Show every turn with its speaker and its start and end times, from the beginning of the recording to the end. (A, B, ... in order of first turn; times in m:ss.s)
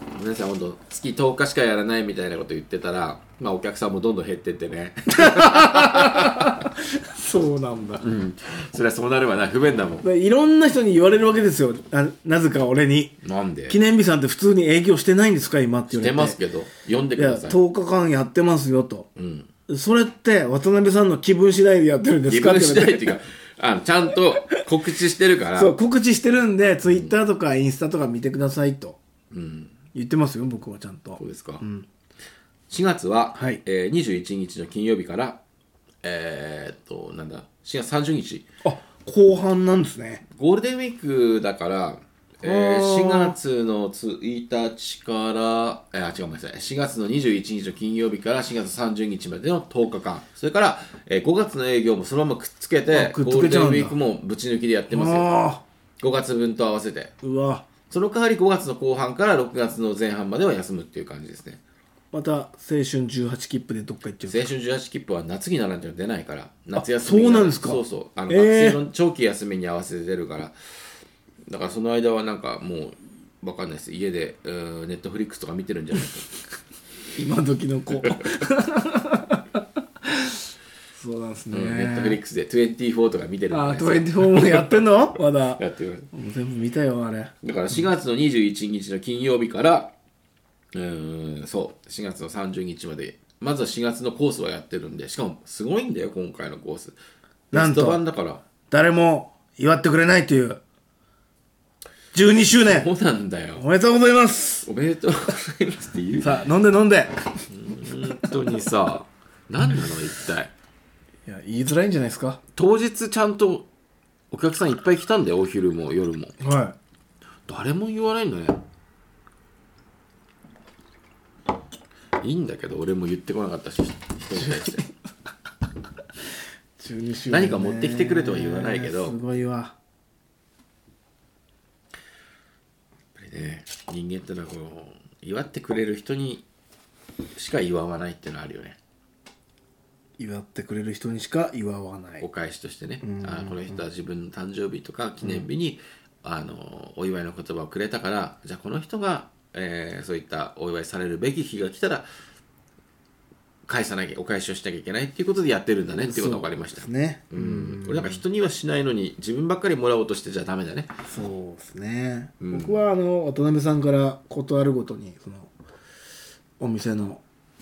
0:00.1-0:06.6 A
0:05.1-0:08.0 B
0:08.0-0:10.0 A
0:10.0-0:13.2 B
0:13.2-0:13.8 A
0:13.7-0:16.4 B
0:15.9-0:17.6 A
0:17.2-0:19.1 B
0:19.2-0:19.5 A
0:19.7-0:23.2 B
0:22.3-0:25.7 A
0:25.6-0:29.0 B
0:26.8-0:27.1 A
0:29.3-0:29.7 A
0:29.9-0:31.8 B
0:31.2-0:31.6 A
0:32.7-0:35.4 A
0:33.3-0:33.6 B
0:36.0-0:38.4 A
0:38.6-0:40.2 B
0:40.3-0:55.3 A
0:42.4-0:43.4 B
0:52.9-0:54.0 B
0:54.9-0:55.6 B
0:56.0-0:57.1 A
0:57.2-0:57.7 B
0:57.9-1:01.6 A
1:02.1-1:04.5 B
1:04.2-1:10.6 A
1:06.8-1:08.8 B
1:11.4-1:16.3 A
1:17.2-1:20.4 B
1:20.9-1:22.2 B
1:21.5-1:24.9 A
1:23.5-1:27.3 B
1:25.6-1:26.1 A
1:27.4-1:29.9 A
1:30.7-1:37.0 A
1:37.5-1:38.4 A
1:37.5-1:38.0 B
1:38.7-1:40.6 B
1:42.1-1:42.9 B
1:42.6-1:43.6 A
1:43.6-1:44.7 B
1:44.6-1:46.5 A
1:46.2-1:47.3 B
1:47.5-1:50.5 A
1:51.2-1:52.4 B
1:52.5-1:53.6 A
1:54.3-1:56.4 A
1:56.4-1:56.8 B
1:57.5-1:58.6 A
2:02.2-2:04.8 A
2:04.3-2:04.8 B
2:06.8-2:09.7 B
2:07.3-2:09.2 A
2:13.2-2:16.4 A
2:17.3-2:18.8 A
2:20.2-2:22.3 B
2:22.2-2:32.0 A
2:23.0-2:23.8 B
2:33.6-2:40.9 A
2:36.0-2:38.2 B
2:41.0-2:45.5 B
2:42.4-2:42.8 A
2:46.6-2:47.2 B